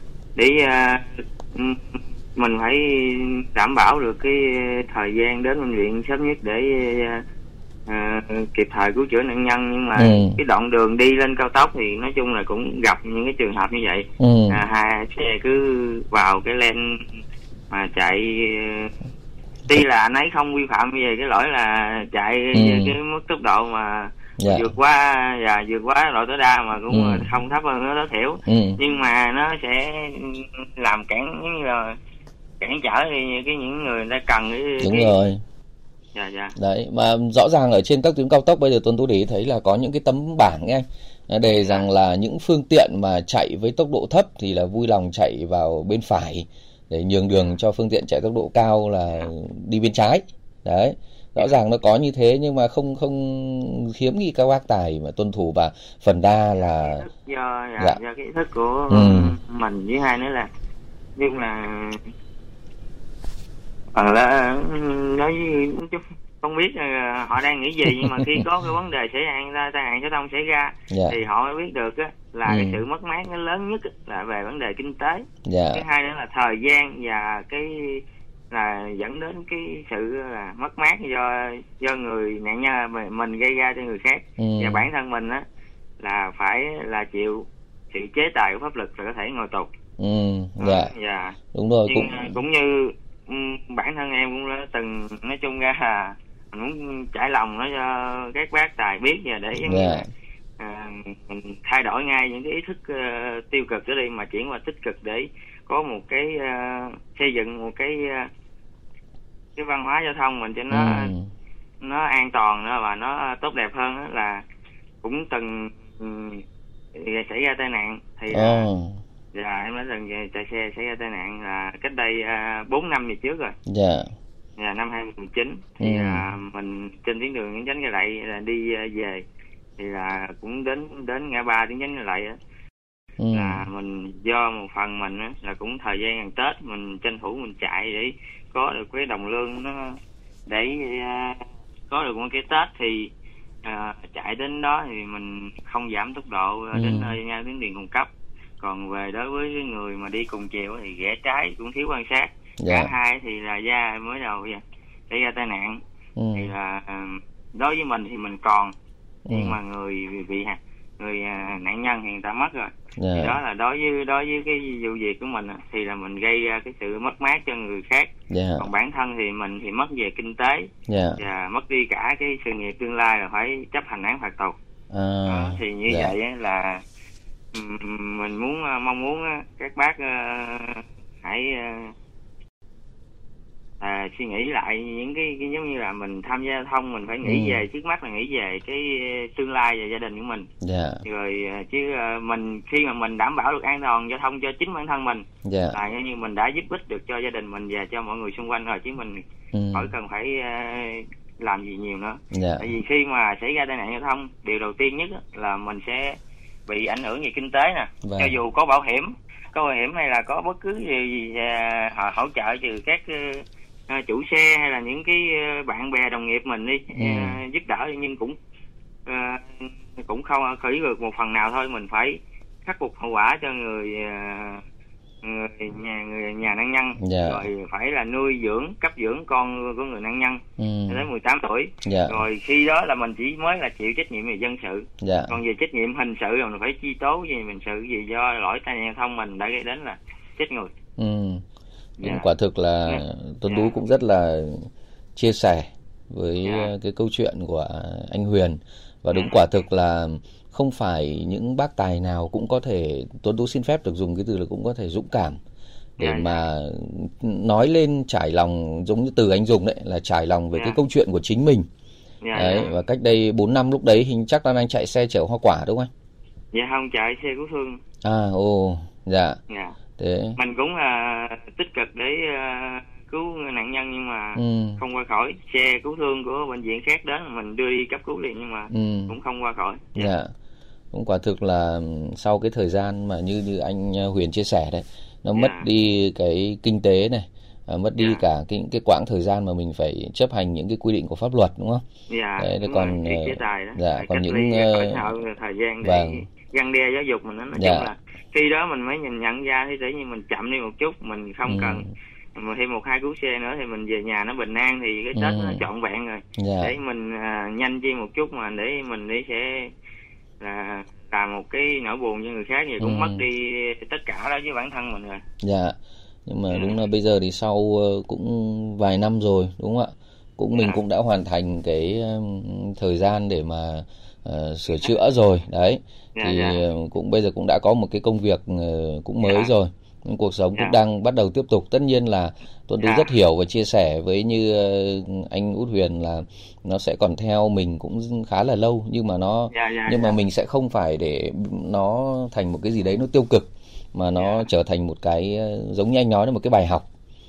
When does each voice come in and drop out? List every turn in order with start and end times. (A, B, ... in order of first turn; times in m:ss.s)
0:00.4-0:07.2 A
0:07.9-0:17.0 A
0:10.0-0:10.4 B
0:14.2-0:14.6 B
0:17.7-0:18.9 A
0:19.7-0:32.0 A
0:22.5-0:22.9 B
0:24.4-0:24.7 B
0:26.9-0:27.3 B
0:28.4-0:28.8 B
0:32.6-0:35.1 A
0:34.8-0:35.4 B
0:36.1-0:36.6 A
0:36.6-0:57.0 B
0:41.5-0:41.8 A
0:56.6-1:00.5 A
0:58.9-0:59.4 B
1:01.2-1:02.1 A
1:03.9-1:25.4 A
1:10.9-1:11.2 B
1:12.4-1:12.8 B
1:15.4-1:15.8 B
1:24.4-1:24.8 B
1:26.0-1:29.7 A
1:30.0-1:30.9 B
1:30.6-1:40.0 A
1:31.5-1:32.4 B
1:39.6-1:40.0 B
1:40.6-1:48.3 A
1:49.6-1:51.1 A
1:50.7-1:51.3 B
1:51.8-1:54.4 A
1:55.0-1:58.6 A
1:58.3-1:59.0 B
1:59.3-2:03.6 A
2:03.7-2:04.1 B
2:04.6-2:09.2 A
2:05.8-2:06.2 B
2:09.8-2:12.4 A
2:13.2-2:13.6 B
2:13.3-2:23.1 A
2:23.6-2:28.1 A
2:26.7-2:27.2 B
2:28.6-2:35.8 A
2:32.6-2:32.9 B
2:36.2-2:36.5 B
2:36.3-2:38.7 A
2:39.3-2:39.6 B
2:39.3-2:54.6 A
2:43.0-2:43.4 B
2:48.3-2:48.7 B
2:50.9-2:51.2 B
2:54.9-2:56.1 B
2:55.2-2:56.8 A
2:57.5-3:01.9 A
3:03.8-3:10.5 A
3:07.2-3:07.6 B
3:10.6-3:11.0 B
3:11.0-3:38.4 A
3:15.4-3:15.8 B
3:19.5-3:19.9 B
3:22.3-3:22.6 B
3:28.0-3:28.4 B
3:36.9-3:37.4 B
3:39.0-3:44.6 A
3:45.2-4:00.7 A
3:47.0-3:47.4 B
3:50.6-3:51.0 B
3:51.8-3:52.2 B
3:55.0-3:55.4 B
4:01.0-4:01.4 B
4:02.0-4:02.3 A
4:02.0-4:15.4 B
4:02.8-4:03.7 A
4:06.4-4:06.7 A
4:09.1-4:09.4 A
4:16.0-4:21.7 B
4:16.0-4:16.4 A
4:22.2-4:22.7 A
4:22.3-4:25.9 B
4:26.5-4:27.8 A
4:28.0-4:29.4 B
4:29.5-4:29.8 A
4:30.0-4:30.4 B
4:30.4-4:40.1 A
4:34.4-4:34.8 B
4:38.7-4:39.1 B
4:40.0-4:40.3 B
4:40.9-4:51.8 B
4:45.3-4:45.7 A
4:52.1-5:09.7 A
4:52.4-4:55.0 B
4:55.8-4:56.2 B
4:57.5-4:57.9 B
5:01.4-5:01.9 B
5:05.1-5:05.7 B
5:06.4-5:06.7 B
5:10.4-5:15.2 A
5:12.8-5:13.2 B
5:15.4-5:15.7 B
5:16.2-5:46.8 B
5:16.5-5:16.8 A
5:26.2-5:26.6 A
5:29.2-5:29.5 A
5:32.8-5:33.1 A
5:39.5-5:40.2 A
5:44.1-5:44.4 A